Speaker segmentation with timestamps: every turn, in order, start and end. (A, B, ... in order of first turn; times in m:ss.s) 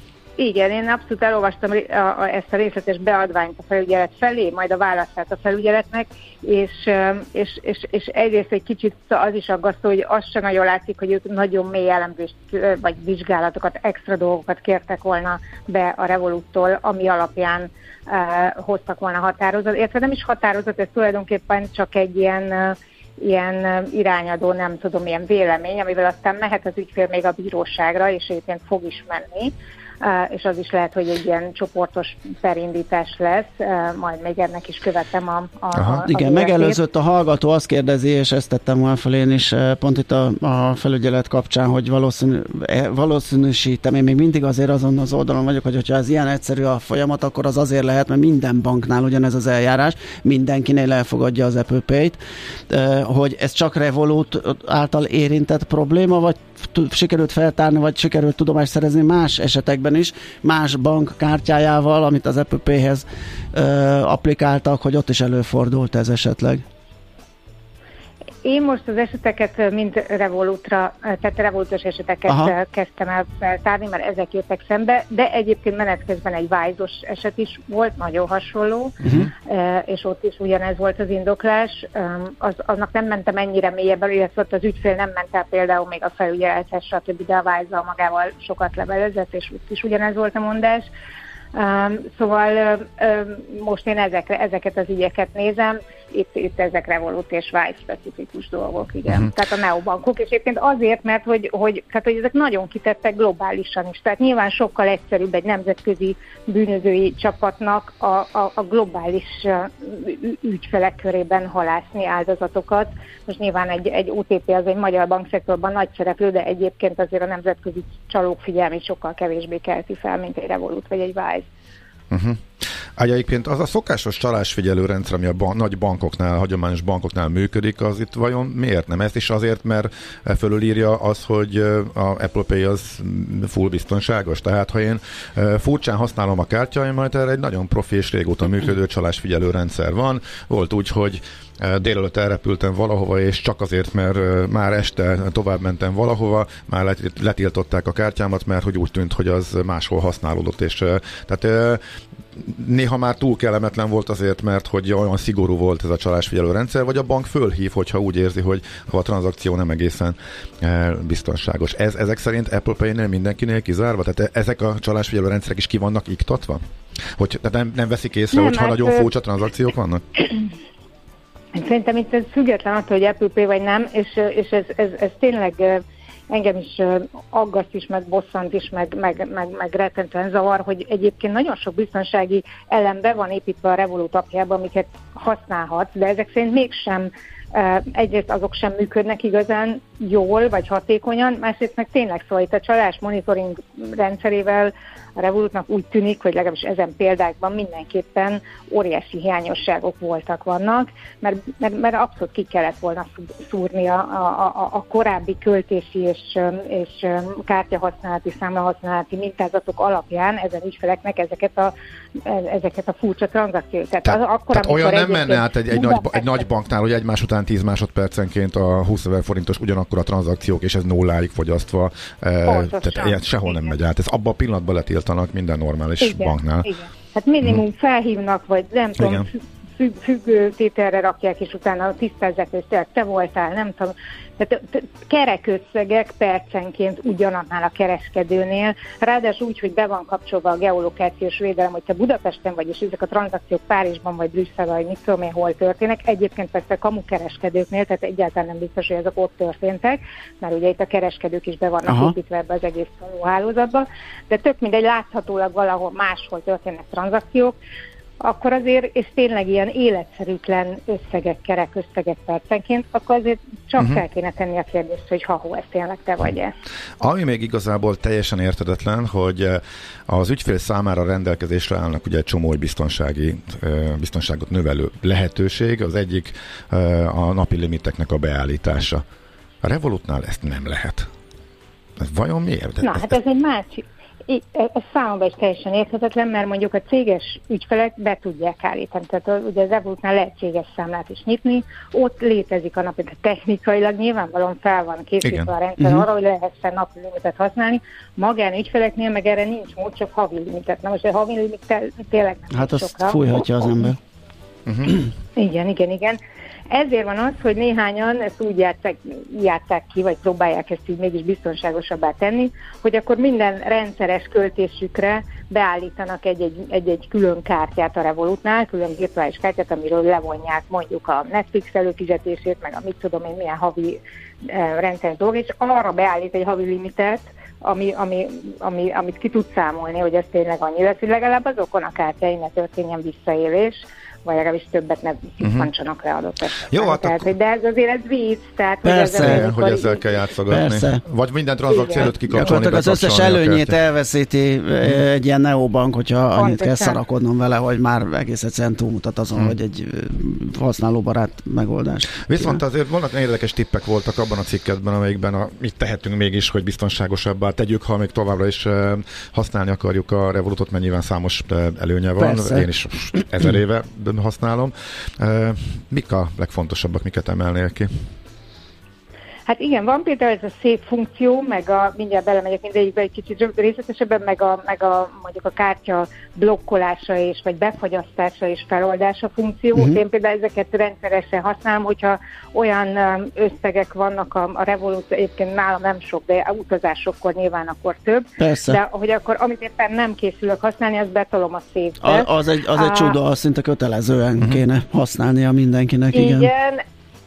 0:00.4-0:36.8 A
0:35.7-0:36.0 B
0:36.1-1:06.6 C
1:08.4-1:30.9 A
1:12.3-1:12.5 C
1:31.5-2:01.5 A
2:02.1-2:31.8 B
2:32.3-2:50.3 B
2:48.3-2:49.1 A
2:51.5-3:31.7 A
3:32.2-3:36.4 A
3:34.0-3:46.7 B
3:42.4-3:43.7 A
3:46.0-4:17.6 A
3:49.0-3:49.3 B
4:11.9-4:12.1 C
4:18.2-4:26.5 A
4:27.0-4:39.0 B
4:39.6-4:41.1 B
4:42.0-4:43.2 B
4:42.8-5:03.2 A
4:55.2-4:55.5 B
5:02.5-5:04.0 C
5:04.7-5:04.9 B
5:05.4-5:06.2 A
5:06.7-5:40.0 A
5:35.4-5:35.7 B
5:36.7-5:37.3 B
5:38.8-5:39.4 C
5:39.2-5:43.8 B
5:40.5-5:41.0 C
5:41.7-5:42.1 A
5:42.1-5:52.6 C
5:46.4-5:47.0 A
5:52.2-6:08.1 B
6:02.2-6:03.2 C
6:09.5-6:33.2 A
6:28.4-6:28.8 C
6:32.0-6:36.5 C
6:36.1-6:36.8 A